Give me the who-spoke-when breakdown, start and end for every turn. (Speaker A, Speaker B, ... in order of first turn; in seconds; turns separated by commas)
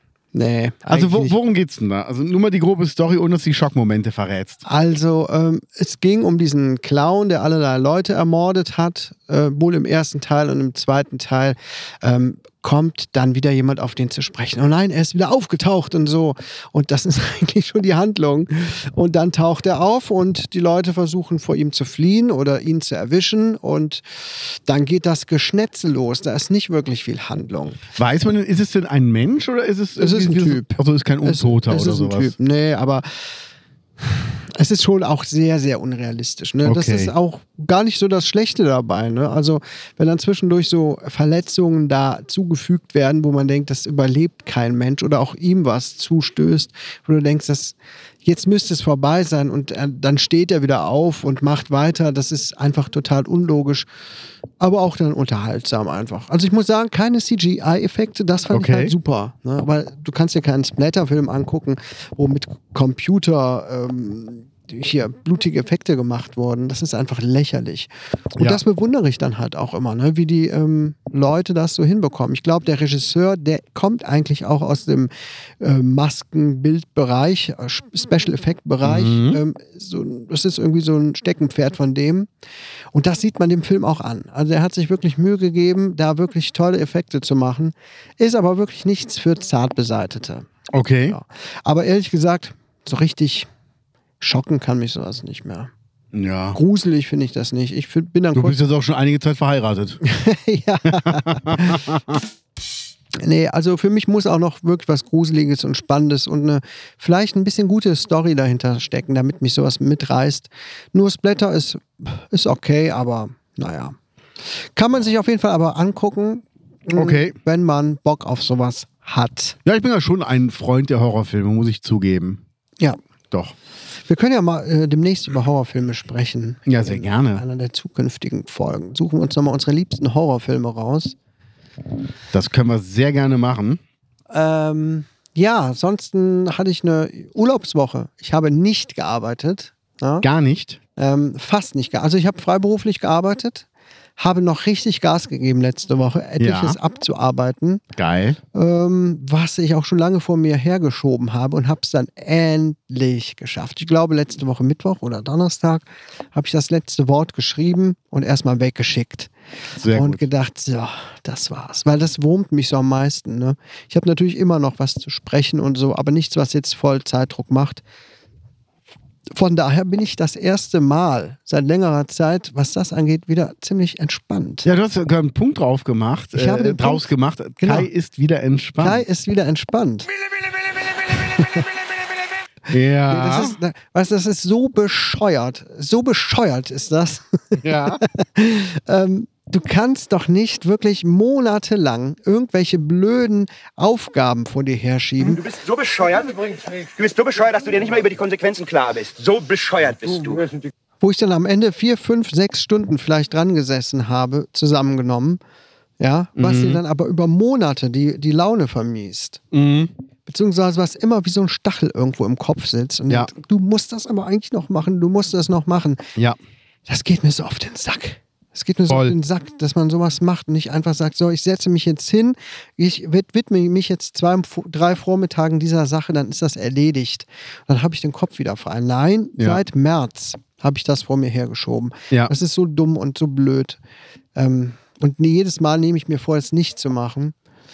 Speaker A: 0.3-1.4, Speaker B: 0.9-4.6, Speaker A: 4.7-27.8, Speaker B: 28.0-32.3, Speaker A: 30.0-33.3, Speaker A: 34.0-53.9, Speaker B: 36.6-37.1, Speaker A: 54.6-82.3, Speaker B: 58.5-58.9, Speaker B: 78.8-79.4, Speaker A: 82.9-90.5, Speaker B: 90.7-91.2, Speaker A: 91.1-93.5, Speaker A: 94.2-95.7, Speaker B: 96.1-96.6, Speaker A: 96.5-98.6, Speaker B: 98.3-100.0, Speaker A: 100.0-101.8, Speaker B: 100.9-102.2, Speaker A: 103.2-114.0, Speaker A: 114.5-119.6, Speaker B: 117.0-117.4, Speaker B: 119.7-122.4, Speaker A: 124.1-131.2, Speaker B: 126.7-127.4, Speaker B: 132.3-133.8, Speaker A: 134.3-140.3, Speaker B: 140.2-140.8, Speaker A: 141.0-143.7, Speaker A: 144.2-147.8, Speaker B: 146.4-146.8, Speaker B: 148.0-148.4, Speaker A: 148.5-159.3, Speaker B: 159.8-160.3, Speaker A: 159.9-167.8, Speaker A: 169.3-174.7, Speaker B: 174.6-179.0, Speaker A: 176.3-177.9, Speaker A: 178.8-180.1, Speaker B: 180.4-181.7, Speaker A: 181.3-181.7, Speaker B: 182.7-183.6, Speaker A: 183.1-195.4, Speaker B: 187.6-188.0, Speaker C: 195.2-200.5, Speaker A: 201.0-205.4, Speaker A: 206.0-209.4, Speaker B: 206.4-206.8, Speaker B: 209.5-209.9, Speaker A: 210.3-216.0, Speaker A: 216.9-233.8, Speaker B: 218.9-219.2, Speaker A: 234.4-237.3